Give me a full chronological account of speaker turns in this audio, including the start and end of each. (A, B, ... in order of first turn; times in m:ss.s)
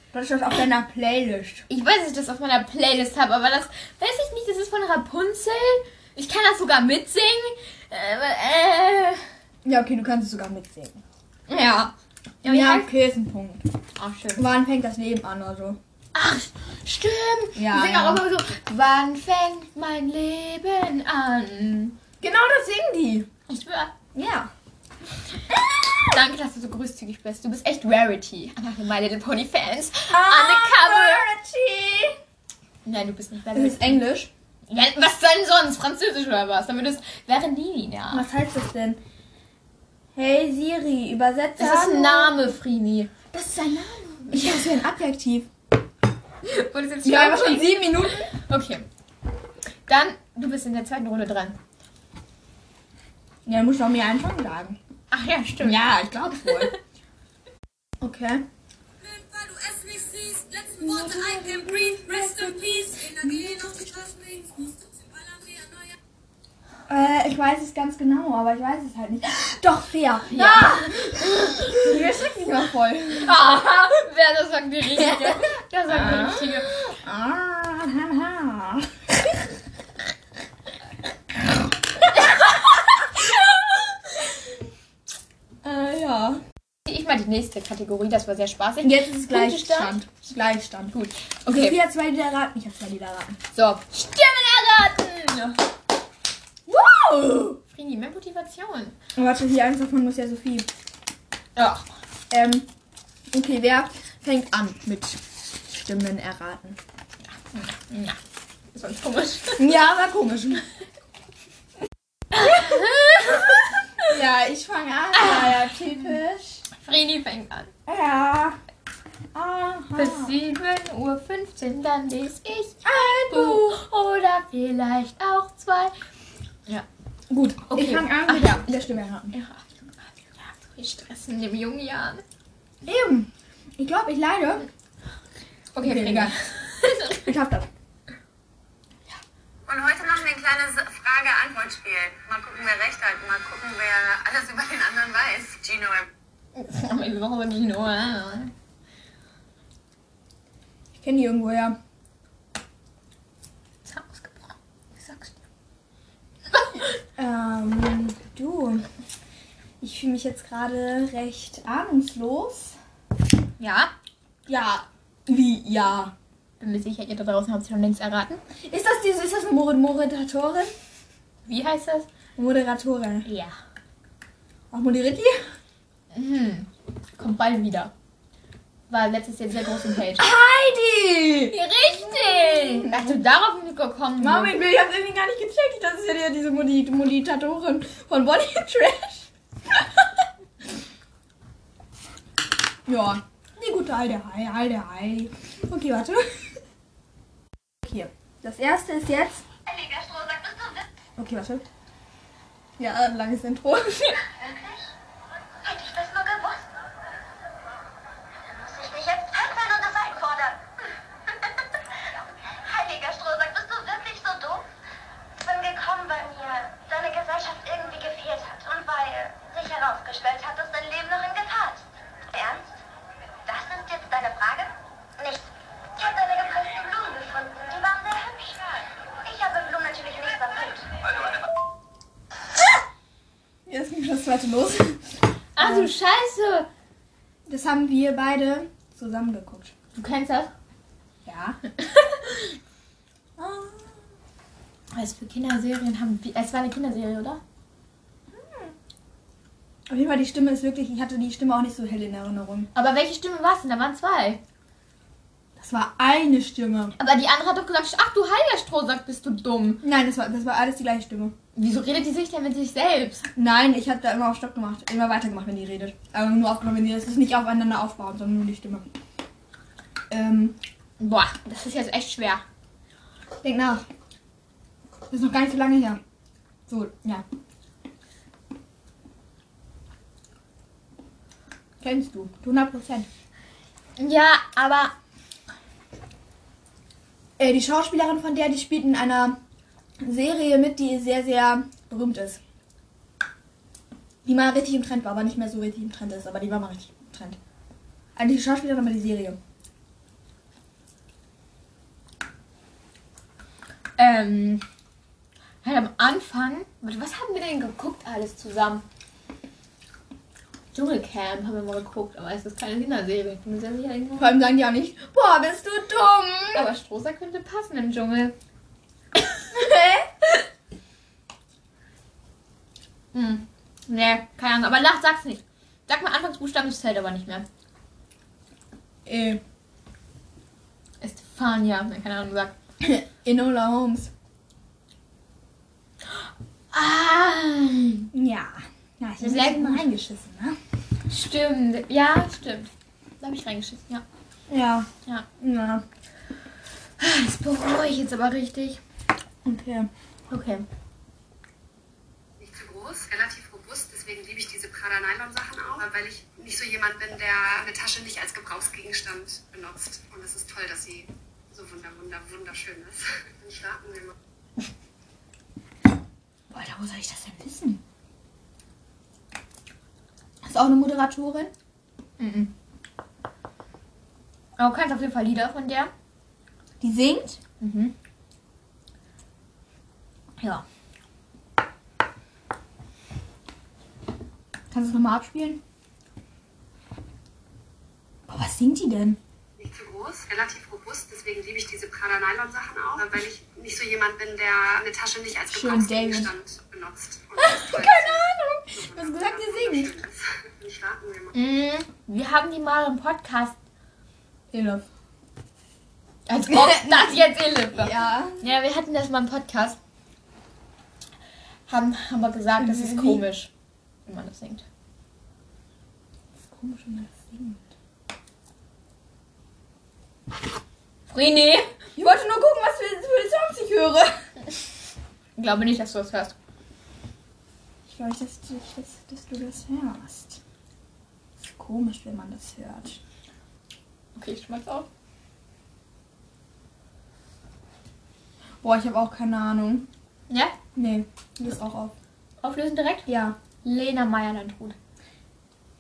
0:00.1-0:01.6 A
0:01.7-0:09.3 B
0:09.6-0:11.0 A
0:11.5-0:12.9 B
0:12.4-0:13.7 A
0:14.0-0:14.4 B
0:14.4-0:15.8 A
0:16.1-0:22.0 B
0:17.6-0:18.3 A
0:22.2-0:23.3 A
0:23.5-0:23.9 B
0:24.1-0:24.5 A
0:25.5-0:26.2 A
0:26.0-0:31.3 B
0:30.1-0:32.2 A
0:32.8-0:34.0 B
0:33.5-0:34.3 A
0:34.7-0:38.3 B
0:38.1-0:39.0 A
0:40.2-0:42.4 A
0:41.6-0:43.3 B
0:43.3-0:45.5 A
0:44.0-0:44.6 B
0:46.4-0:48.9 B
0:47.0-0:48.3 A
0:49.9-0:51.6 B
0:53.4-0:54.8 A
0:55.1-0:55.9 B
0:55.6-0:56.7 A
0:58.0-0:58.4 A
0:59.4-1:00.7 C
1:00.8-1:02.0 A
1:01.6-1:02.3 B
1:02.9-1:04.4 C
1:06.9-1:13.4 A
1:10.3-1:11.9 B
1:13.2-1:16.8 B
1:15.0-1:19.4 A
1:22.0-1:24.6 A
1:25.6-1:26.4 A
1:26.9-1:30.0 B
1:28.8-1:31.0 A
1:30.9-1:31.8 B
1:31.5-1:33.4 A
1:33.6-1:35.6 B
1:36.7-1:37.6 A
1:37.7-1:39.0 B
1:39.2-1:40.7 A
1:41.6-1:41.9 B
1:42.3-1:42.7 A
1:43.3-1:46.8 A
1:47.4-1:48.2 B
1:48.7-1:49.9 B
1:49.6-1:50.7 A
1:52.3-1:54.1 B
1:54.0-1:56.6 A
1:55.2-1:56.2 B
1:56.7-1:57.7 B
1:57.9-1:58.6 A
1:59.3-2:00.4 A
2:00.0-2:05.9 B
2:02.8-2:03.8 A
2:07.3-2:09.3 A
2:07.6-2:12.2 B
2:12.8-2:14.7 A
2:15.8-2:17.3 B
2:15.8-2:16.4 A
2:17.1-2:17.7 A
2:19.7-2:25.9 D
2:22.9-2:23.4 C
2:26.6-2:28.5 B
2:31.0-2:31.8 A
2:33.8-2:35.4 B
2:36.6-2:36.9 B
2:37.2-2:38.9 A
2:39.8-2:42.8 A
2:43.6-2:43.9 B
2:44.5-2:46.1 A
2:46.6-2:48.4 B
2:48.6-2:50.7 A
2:51.4-2:52.1 B
2:52.4-2:53.3 A
2:53.2-2:53.6 B
2:54.7-2:55.4 A
2:56.1-2:57.9 B
2:58.9-3:00.3 B
3:00.2-3:03.2 A
3:01.5-3:04.6 B
3:04.2-3:10.1 A
3:12.9-3:16.4 A
3:17.8-3:19.4 A
3:19.7-3:20.9 E
3:21.2-3:21.6 A
3:22.8-3:24.2 A
3:24.3-3:24.9 E
3:25.6-3:26.7 E
3:28.5-3:30.6 E
3:32.0-3:34.6 E
3:35.4-3:42.7 E
3:43.5-3:50.9 E
3:53.7-3:55.9 A
3:55.6-3:56.7 B
3:57.5-3:59.7 A
4:00.0-4:00.5 B
4:01.2-4:01.6 A
4:01.8-4:02.2 B
4:03.4-4:04.1 A
4:04.9-4:07.4 B
4:08.3-4:08.8 A
4:09.9-4:12.7 A
4:12.7-4:14.4 B
4:15.6-4:16.9 A
4:17.0-4:19.8 B
4:19.8-4:21.4 A
4:21.6-4:23.3 B
4:23.4-4:28.9 A
4:30.1-4:30.6 A
4:31.0-4:32.4 B
4:33.4-4:33.8 A
4:35.1-4:36.0 A
4:36.7-4:37.2 A
4:41.8-4:43.1 A
4:44.0-4:44.9 B
4:47.4-4:49.4 A
4:50.0-4:52.4 A
4:54.2-4:57.4 A
4:58.2-4:59.4 A
5:04.0-5:04.6 B
5:05.6-5:08.8 B
5:10.7-5:14.4 B
5:14.2-5:16.7 A
5:16.5-5:18.3 B
5:19.5-5:20.1 A
5:23.1-5:27.5 B
5:29.1-5:29.4 A
5:31.0-5:32.6 B
5:32.8-5:34.1 A
5:36.1-5:38.1 B
5:38.1-5:40.6 A
5:39.2-5:39.9 B
5:41.1-5:44.0 B
5:44.5-5:45.8 A
5:47.0-5:48.8 B
5:49.4-5:49.9 A
5:50.3-5:50.6 B
5:52.4-6:04.1 D
6:06.5-6:07.8 A
6:10.4-6:11.5 A
6:12.2-6:12.5 B
6:14.6-6:15.9 B
6:16.8-6:17.4 A
6:17.6-6:17.9 B
6:24.7-6:25.6 A
6:28.3-6:29.2 A
6:29.6-6:41.4 D
6:35.5-6:36.3 A
6:37.4-6:39.9 A
6:41.3-6:43.6 B
6:44.5-6:44.9 A
6:46.3-6:49.8 B
6:46.5-6:47.1 A
6:47.7-6:48.5 A
6:51.7-6:53.5 B
6:52.6-6:53.3 A
6:54.1-6:54.6 B
6:56.4-6:57.6 A
7:01.1-7:01.7 B
7:02.0-7:04.2 A
7:05.4-7:06.4 B
7:07.9-7:10.4 A
7:11.4-7:13.0 A
7:14.2-7:14.9 B
7:18.6-7:19.9 A
7:20.3-7:20.6 B
7:20.8-7:21.9 A
7:22.4-7:23.1 B
7:23.1-7:23.4 A
7:23.6-7:24.8 B